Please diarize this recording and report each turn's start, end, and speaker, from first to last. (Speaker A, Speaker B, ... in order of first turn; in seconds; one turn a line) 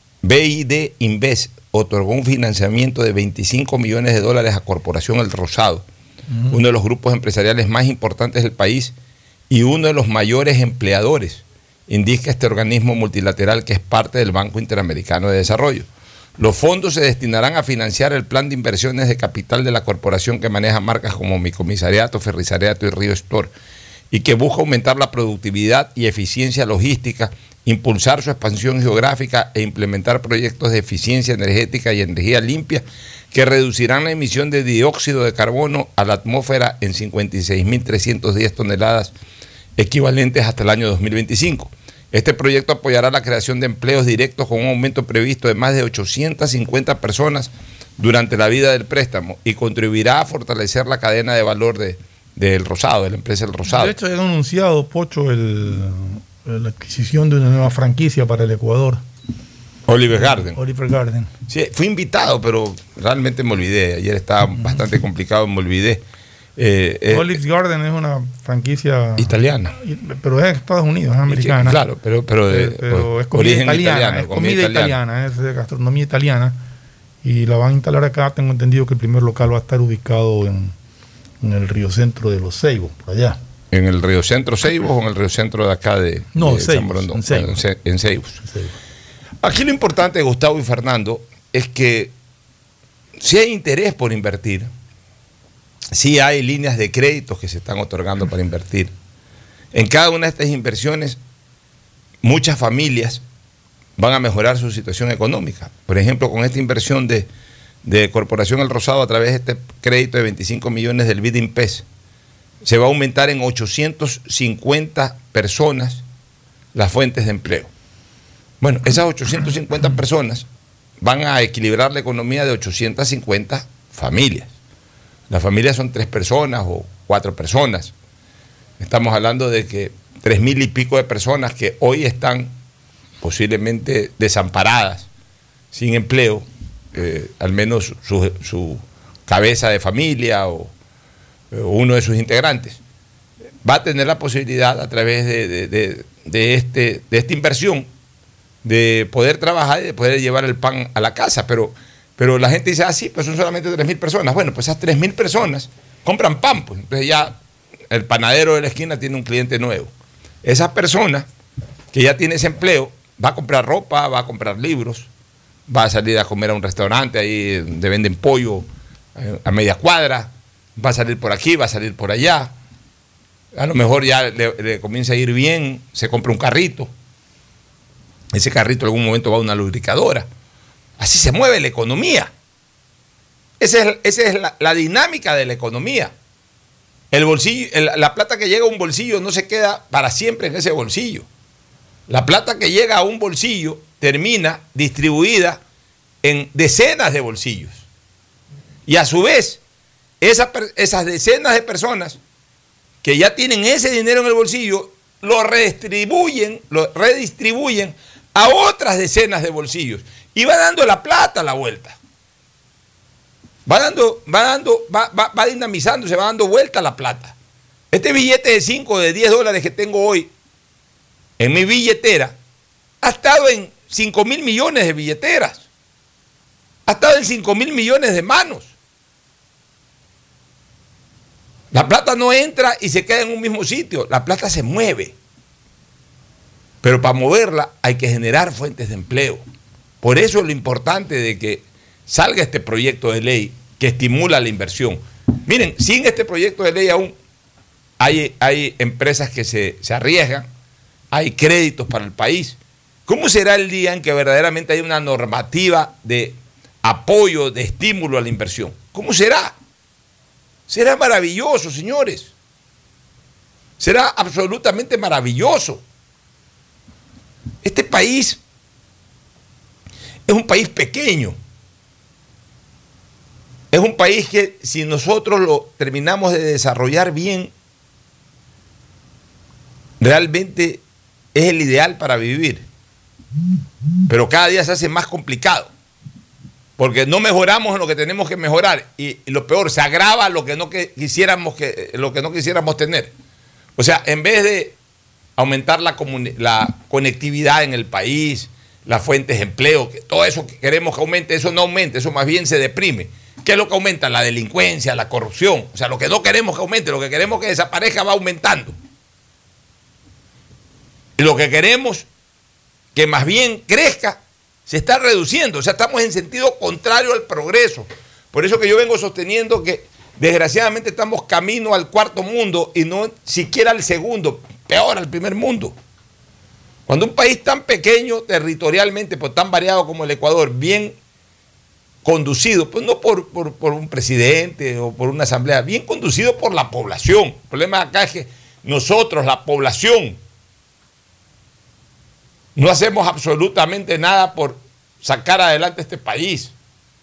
Speaker A: 0.2-5.8
Speaker B: 6.3-6.6
Speaker A: 6.5-8.9
Speaker A: 9.5-23.5
Speaker A: 24.1-39.1
Speaker A: 39.8-53.9
Speaker B: 53.7-59.0
Speaker A: 59.9-60.6
Speaker B: 60.1-61.3
Speaker A: 61.5-66.0
Speaker A: 66.6-67.3
Speaker B: 67.1-71.8
Speaker A: 69.2-69.7
Speaker A: 71.3-75.0
Speaker B: 72.5-76.6
Speaker B: 77.2-80.7
Speaker B: 81.4-83.4
Speaker A: 83.7-88.4
Speaker B: 86.3-87.6
Speaker B: 88.4-88.7
Speaker A: 89.4-92.1
Speaker A: 93.2-94.7
Speaker A: 95.9-98.9
Speaker A: 99.7-101.2
Speaker A: 102.2-103.2
Speaker A: 104.0-107.3
Speaker A: 107.8-111.8
Speaker A: 112.6-116.0
Speaker A: 116.7-117.7
Speaker A: 118.6-120.5
Speaker A: 121.0-124.5
Speaker A: 125.3-127.9
Speaker A: 128.8-132.5
Speaker A: 133.2-135.1
Speaker A: 135.7-140.7
Speaker A: 141.5-142.8
Speaker A: 143.6-147.9
Speaker A: 148.6-157.4
Speaker A: 157.9-159.9
Speaker A: 160.4-161.3
Speaker A: 161.9-165.1
Speaker A: 165.7-172.5
Speaker A: 173.5-176.9
Speaker A: 178.3-180.3
Speaker A: 181.0-182.3
Speaker A: 183.6-186.1
Speaker A: 187.1-191.2
Speaker A: 192.1-195.6
Speaker A: 196.2-197.8
Speaker A: 198.8-199.6
Speaker A: 200.2-202.2
Speaker A: 203.0-212.0
Speaker A: 213.7-217.3
Speaker A: 217.9-220.3
Speaker A: 221.4-222.3
Speaker A: 223.0-225.7
Speaker A: 226.9-228.7
Speaker A: 231.7-235.1
Speaker A: 236.8-239.4
Speaker A: 240.0-247.2
Speaker A: 248.0-250.5
Speaker A: 251.1-259.5
Speaker A: 260.7-262.3
Speaker A: 263.8-265.8
Speaker A: 267.6-268.4
Speaker A: 270.3-271.4
Speaker A: 273.7-277.5
Speaker A: 280.0-280.8
Speaker A: 281.3-282.6
Speaker A: 284.1-285.7
Speaker A: 286.8-293.1
Speaker A: 293.8-294.8
Speaker A: 295.4-308.8
Speaker A: 311.2-312.1
Speaker A: 312.9-325.8
Speaker A: 326.9-331.0
Speaker A: 332.0-340.2
Speaker A: 342.5-346.5